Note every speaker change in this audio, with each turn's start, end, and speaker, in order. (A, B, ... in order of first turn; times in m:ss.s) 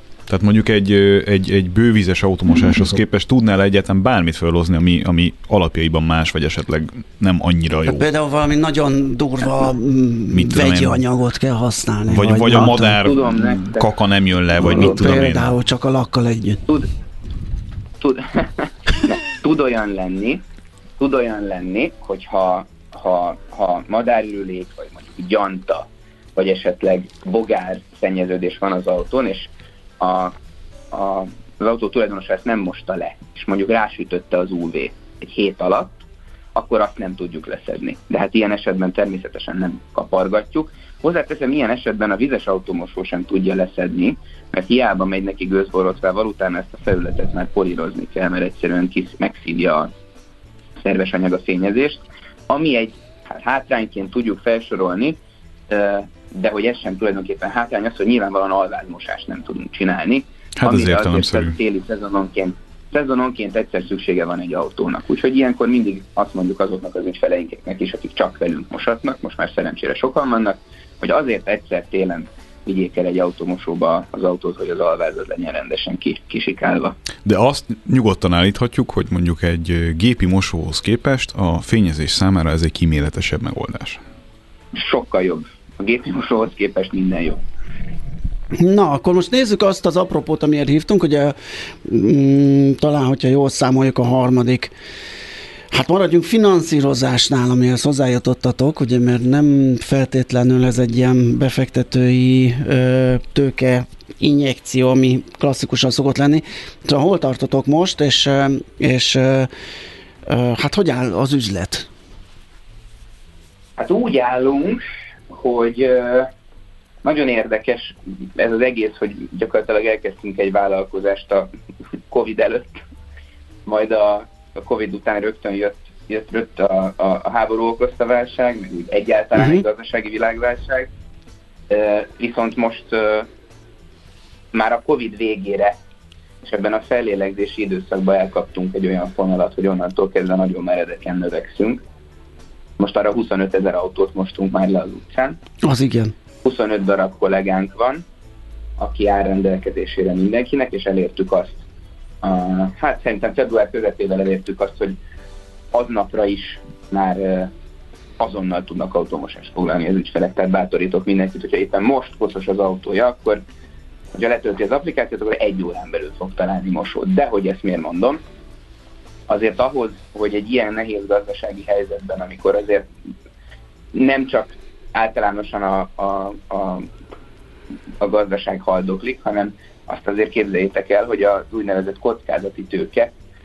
0:00.3-0:08.1 A
0:07.9-0:13.0 B
0:10.3-0:11.0 A
0:12.1-0:15.6 A
0:12.6-0:13.9 C
0:14.6-0:16.6 B
0:19.0-0:20.4 C
0:21.0-0:29.5 C
0:30.0-0:30.3 C
0:30.9-0:36.0 C
0:36.6-0:49.9 C
0:50.8-0:55.1 C
0:55.7-1:16.9 C
1:00.6-1:01.6 A
1:17.2-1:24.0 A
1:24.7-1:27.4 C
1:28.6-1:34.7 B
1:35.7-1:49.5 B
1:50.3-1:51.9 B
1:53.8-1:56.3 C
1:57.0-2:01.4 C
2:02.1-2:02.7 C
2:03.6-2:10.8 C
2:11.7-2:13.2 C
2:14.5-2:15.7 C
2:16.4-2:21.8 C
2:22.8-2:25.4 C
2:25.6-2:26.1 B
2:26.4-2:28.0 C
2:28.8-2:31.6 C
2:32.2-2:34.9 C
2:35.7-2:37.5 C
2:38.2-2:43.4 C
2:44.2-2:48.2 C
2:49.3-2:52.9 C
2:54.0-2:56.9 C
2:58.0-3:03.1 C